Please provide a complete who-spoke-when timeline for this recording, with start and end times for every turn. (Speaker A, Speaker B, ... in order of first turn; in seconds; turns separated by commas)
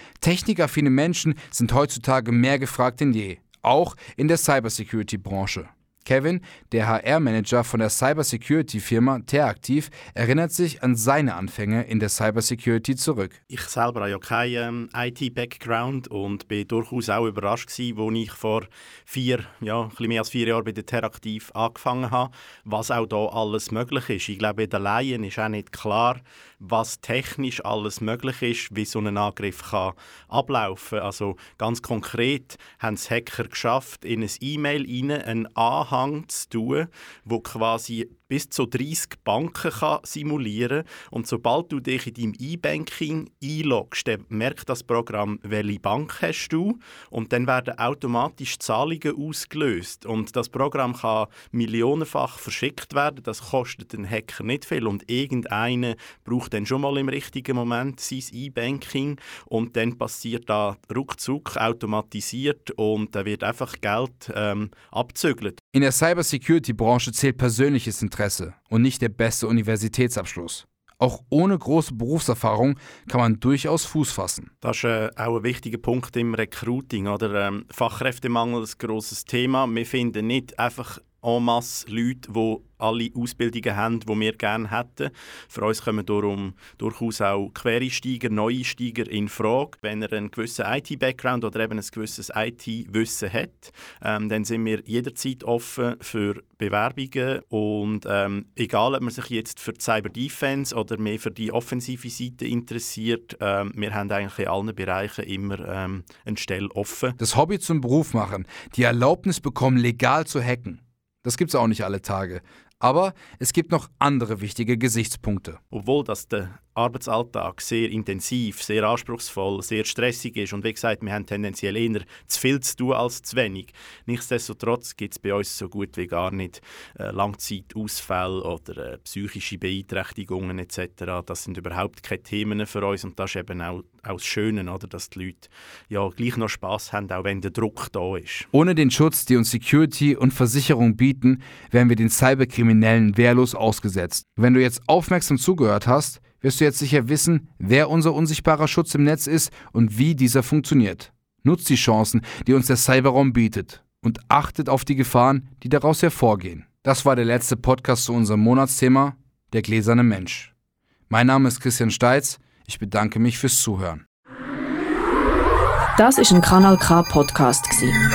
Speaker A: 0.2-13.4, Speaker B: 13.5-65.6, Speaker A: 65.7-74.5, Speaker B: 74.6-107.2, Speaker A: 107.2-115.6, Speaker B: 115.7-138.5, Speaker A: 138.5-160.5, Speaker A: 161.1-164.0, Speaker C: 166.0-168.0